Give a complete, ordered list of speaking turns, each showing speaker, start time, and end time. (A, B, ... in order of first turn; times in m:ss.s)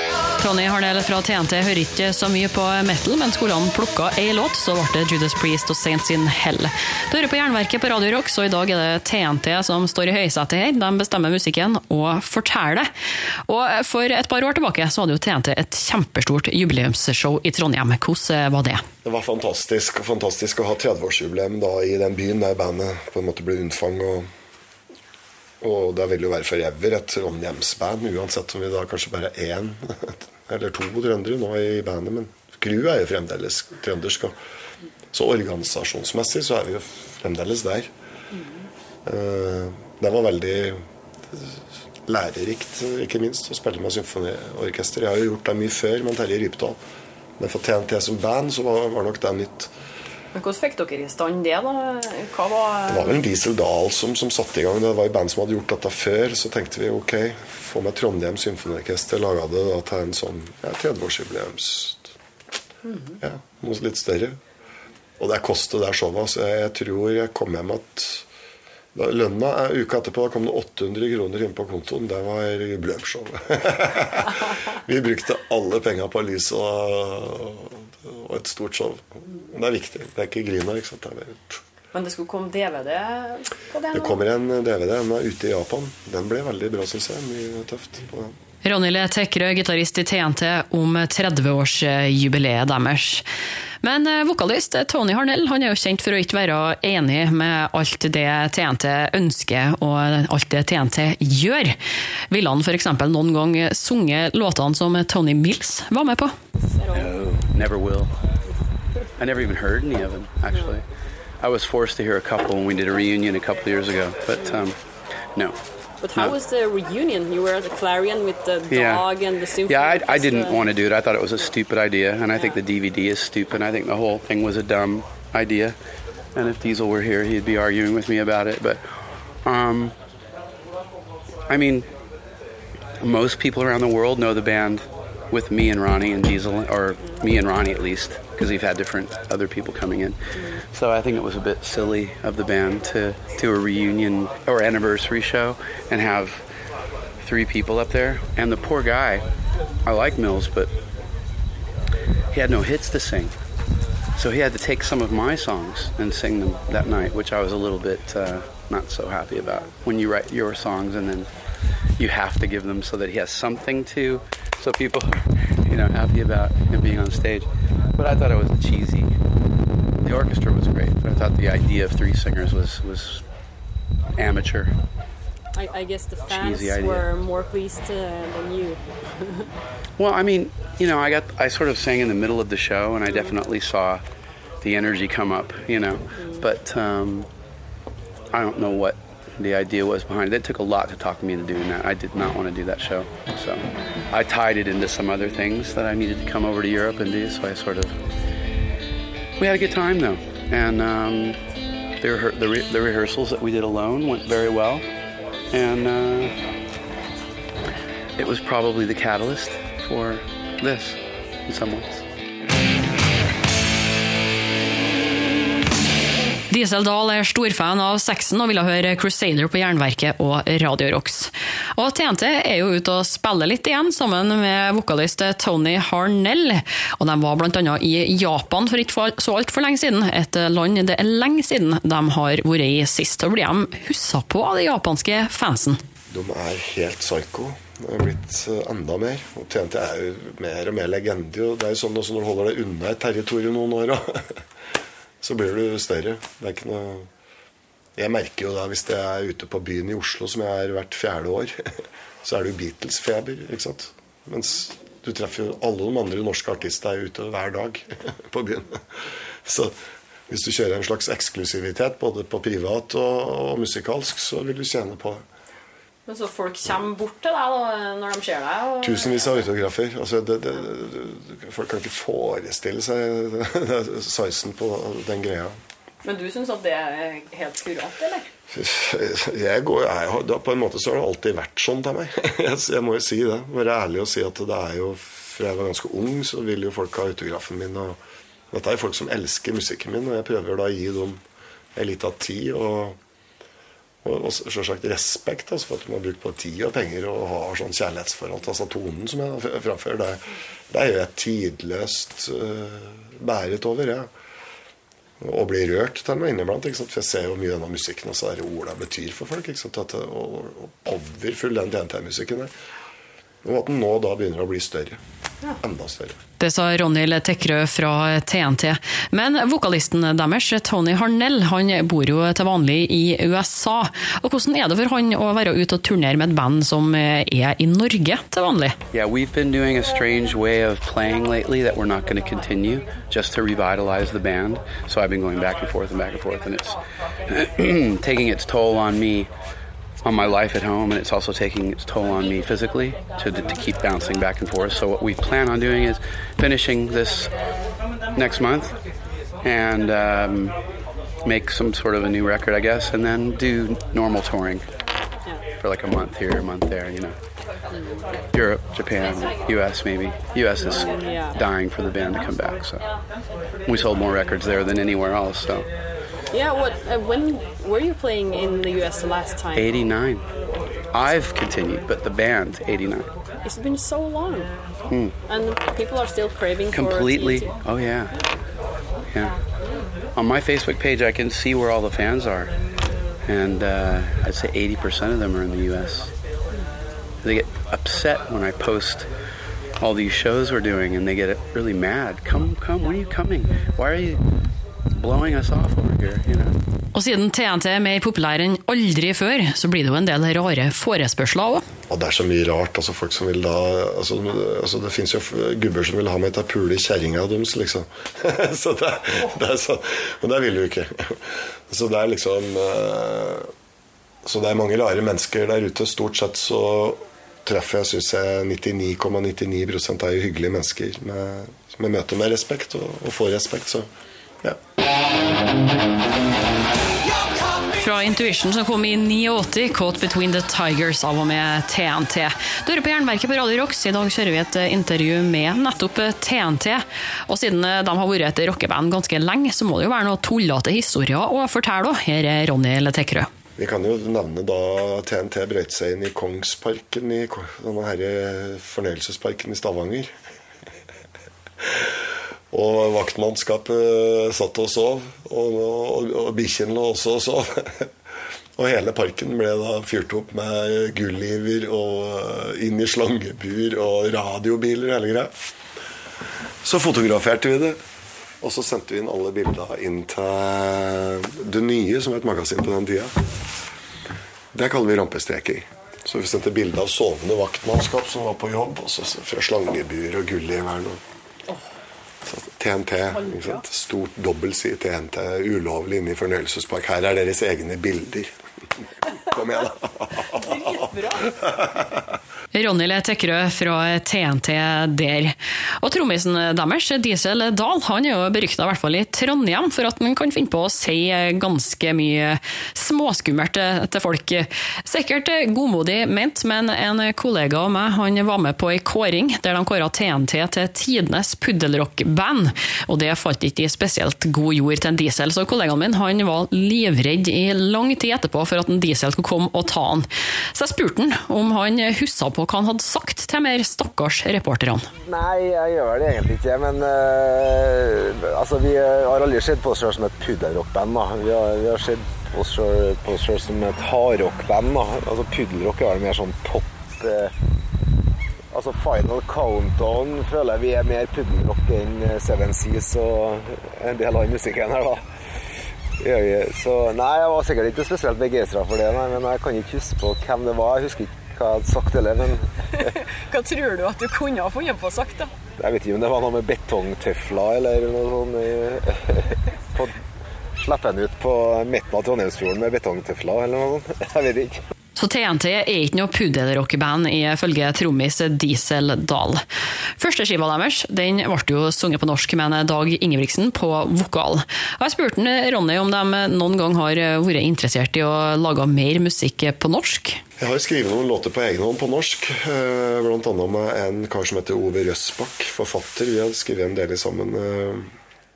0:00.4-0:12.9 A
0:13.5-0:18.8 A
0:19.0-0:24.3 B
0:25.6-0:34.4 B
0:35.1-0:37.9 B
0:38.3-0:38.6 C
0:39.0-0:46.8 B
0:47.4-0:49.7 B
0:50.3-0:53.2 C
0:52.9-1:02.1 B
1:02.9-1:03.1 C
1:03.2-1:04.4 B
1:05.2-1:08.2 B
1:08.9-1:21.6 B
1:21.9-1:24.2 C
1:23.9-1:28.3 B
1:28.6-1:33.2 A
1:33.8-1:41.8 A
1:42.3-1:46.3 A
1:46.7-1:47.1 C
1:46.9-1:48.1 D
1:49.2-1:50.8 D
1:51.4-1:54.8 D
1:56.0-2:00.7 C
1:58.7-1:59.1 D
1:59.6-2:05.7 D
2:06.4-2:08.8 D
2:09.4-2:09.9 D
2:11.5-2:11.8 D
2:13.0-2:26.4 D
2:27.2-2:29.2 D
2:29.8-2:30.7 D
2:32.3-2:33.3 D
2:34.2-2:41.3 D
2:42.0-2:49.1 D
2:50.0-2:53.2 D
2:54.2-2:54.7 D
2:55.5-2:59.4 C
2:56.3-2:57.1 D
3:00.0-3:04.0 D
3:03.1-3:03.3 C
3:04.6-3:07.3 D
3:06.2-3:06.4 C
3:08.3-3:18.0 D
3:19.4-3:21.4 D
3:22.0-3:24.8 D
3:25.5-3:26.3 D
3:28.2-3:32.0 D
3:36.5-3:55.8 A
3:56.1-4:04.4 B
4:05.2-4:07.1 B
4:08.0-4:11.6 B
4:12.2-4:18.8 B
4:19.4-4:19.7 B
4:20.3-4:25.2 B
4:26.0-4:29.4 C
4:28.8-4:35.5 B
4:36.0-4:38.3 C
4:38.5-4:48.0 B
4:48.5-4:51.2 B
4:51.7-4:53.0 B
4:54.0-5:04.1 B
5:05.2-5:12.5 B
5:13.4-5:15.0 B
5:15.6-5:16.2 B
5:16.4-5:28.8 A
5:28.9-5:36.8 D
5:37.3-5:39.3 D
5:40.0-5:47.3 D
5:48.2-5:48.7 D
5:49.4-5:50.5 D
5:51.2-5:54.6 D
5:55.6-5:57.1 D
5:57.7-5:58.0 C
5:58.3-6:02.8 D
6:00.7-6:01.4 C
6:03.7-6:05.6 D
6:06.3-6:09.8 C
6:09.5-6:10.2 D
6:10.9-6:13.1 D
6:13.4-6:14.5 C
6:15.3-6:17.5 C
6:16.7-6:18.1 D
6:20.2-6:22.5 D
6:23.3-6:26.1 D
6:27.2-6:29.1 D
6:29.8-6:34.2 D
6:34.9-6:36.6 D
6:36.9-6:41.6 A
6:41.9-6:53.5 B
6:54.2-7:03.9 B
7:07.7-7:23.3 A
7:23.6-7:30.1 B
7:31.6-7:32.0 B
7:32.5-7:37.9 B
7:38.6-7:45.4 B
7:46.6-7:47.8 B
7:48.4-7:53.1 B
7:54.5-8:01.0 B
8:02.2-8:08.3 B
8:03.1-8:03.6 C
8:09.3-8:10.9 B
8:10.2-8:11.4 C
8:12.5-8:44.9 A
8:45.0-8:57.3 E
8:58.5-9:05.0 E
9:06.0-9:12.5 E
9:12.7-9:15.3 C
9:15.6-9:19.9 E
9:20.6-9:24.6 E
9:25.0-9:29.4 A
9:30.0-9:40.2 A
9:40.4-9:47.9 B